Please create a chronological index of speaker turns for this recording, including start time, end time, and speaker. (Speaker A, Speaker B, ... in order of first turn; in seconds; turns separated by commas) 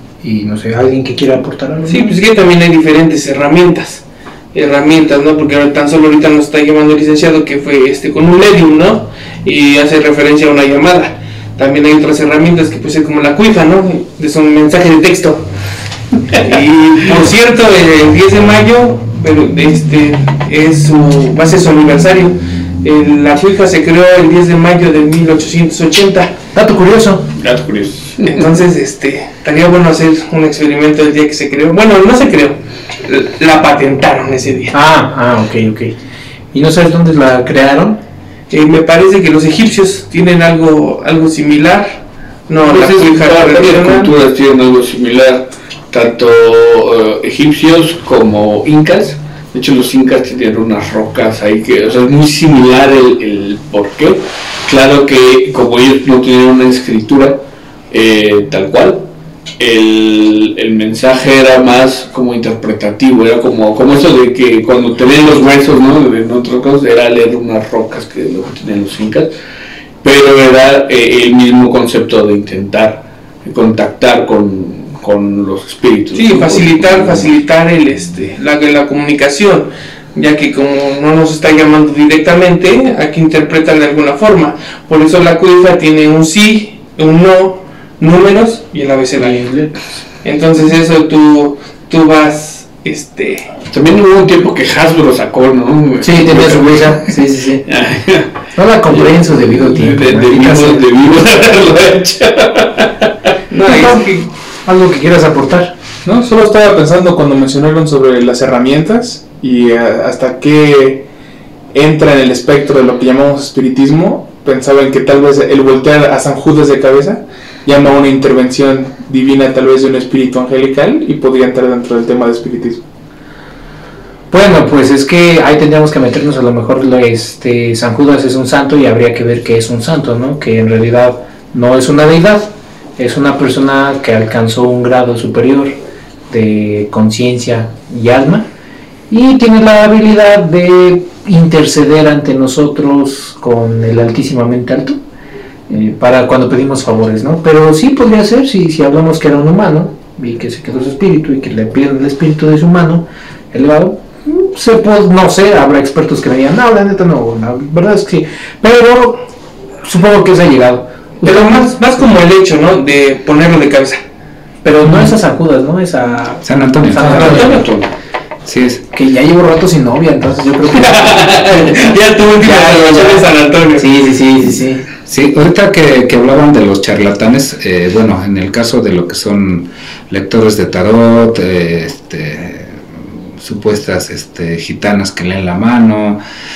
Speaker A: 0.2-2.1, Speaker B: 1.9-15.5, Speaker B: 16.3-26.3, Speaker A: 26.5-27.3, Speaker C: 27.4-28.5, Speaker B: 28.2-34.7, Speaker A: 34.7-36.0, Speaker A: 36.5-38.0, Speaker B: 38.5-44.1, Speaker C: 42.6-59.1, Speaker C: 59.6-69.3, Speaker C: 70.0-77.3, Speaker B: 76.1-89.5, Speaker A: 89.2-89.7, Speaker B: 90.2-93.5, Speaker C: 93.7-97.0, Speaker A: 96.0-97.7, Speaker C: 97.7-98.3, Speaker A: 98.5-100.8, Speaker C: 98.9-103.1, Speaker B: 103.5-104.2, Speaker A: 103.6-105.8, Speaker D: 106.0-111.0, Speaker D: 111.7-122.8, Speaker A: 124.3-138.5, Speaker A: 139.1-145.0, Speaker A: 145.7-159.2, Speaker A: 159.8-161.6, Speaker B: 161.2-164.0, Speaker A: 164.6-167.6, Speaker E: 166.4-167.6, Speaker B: 167.0-167.7, Speaker C: 167.0-167.9, Speaker E: 168.4-168.8, Speaker A: 168.9-174.8, Speaker B: 170.8-173.9, Speaker E: 175.1-182.8, Speaker E: 183.4-186.2